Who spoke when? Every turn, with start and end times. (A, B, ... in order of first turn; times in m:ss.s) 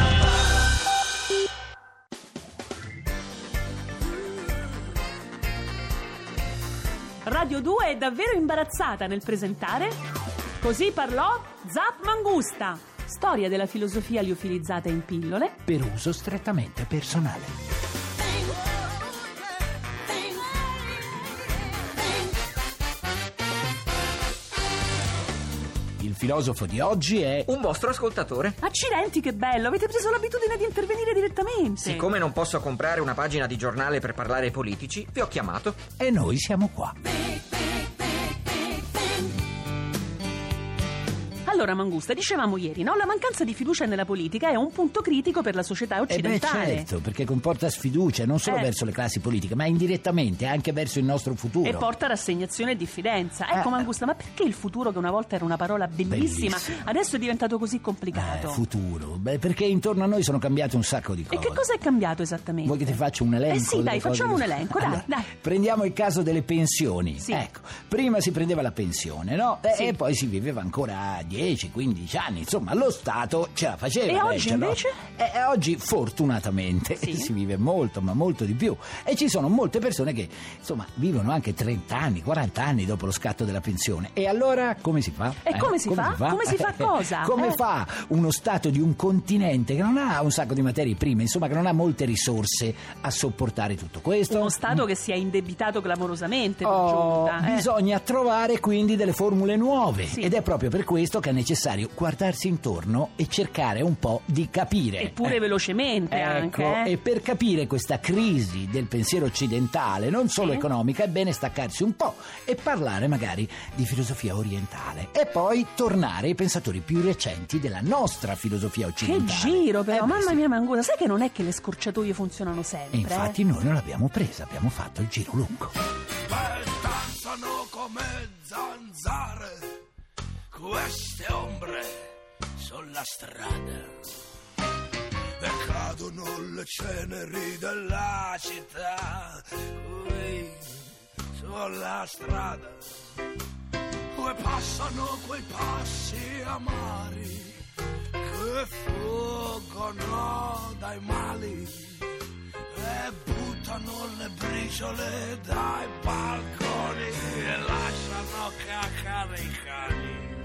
0:07.2-0:10.0 A
0:10.6-0:15.6 A
0:15.7-0:17.6 B
0:26.0-0:27.5 B
0:27.5-0:28.6 C
0:28.6-0:32.0 A
0:31.8-0:35.8 C
0:36.0-0:37.0 B
0:41.4-0:46.9 A
0:46.1-0:51.9 B
0:48.4-0:48.7 A
0:51.6-0:58.6 A
0:53.5-0:53.8 B
0:56.1-0:56.9 B
0:58.1-1:01.6 B
1:01.3-1:02.9 A
1:02.6-1:34.8 B
1:03.5-1:05.3 A
1:09.7-1:09.9 A
1:14.1-1:15.0 A
1:17.0-1:17.3 A
1:25.4-1:27.6 A
1:34.3-1:37.7 A
1:36.6-1:45.4 B
1:40.1-1:40.3 A
1:45.0-1:46.9 A
1:46.1-2:00.4 B
1:50.4-1:50.7 A
1:59.0-2:03.4 A
2:02.9-2:05.7 B
2:06.3-2:09.5 D
2:10.5-2:11.9 D
2:12.6-2:14.0 D
2:15.4-2:20.8 D
2:21.4-2:22.8 D
2:24.1-2:27.5 D
2:28.2-2:32.0 D
2:32.8-2:40.3 D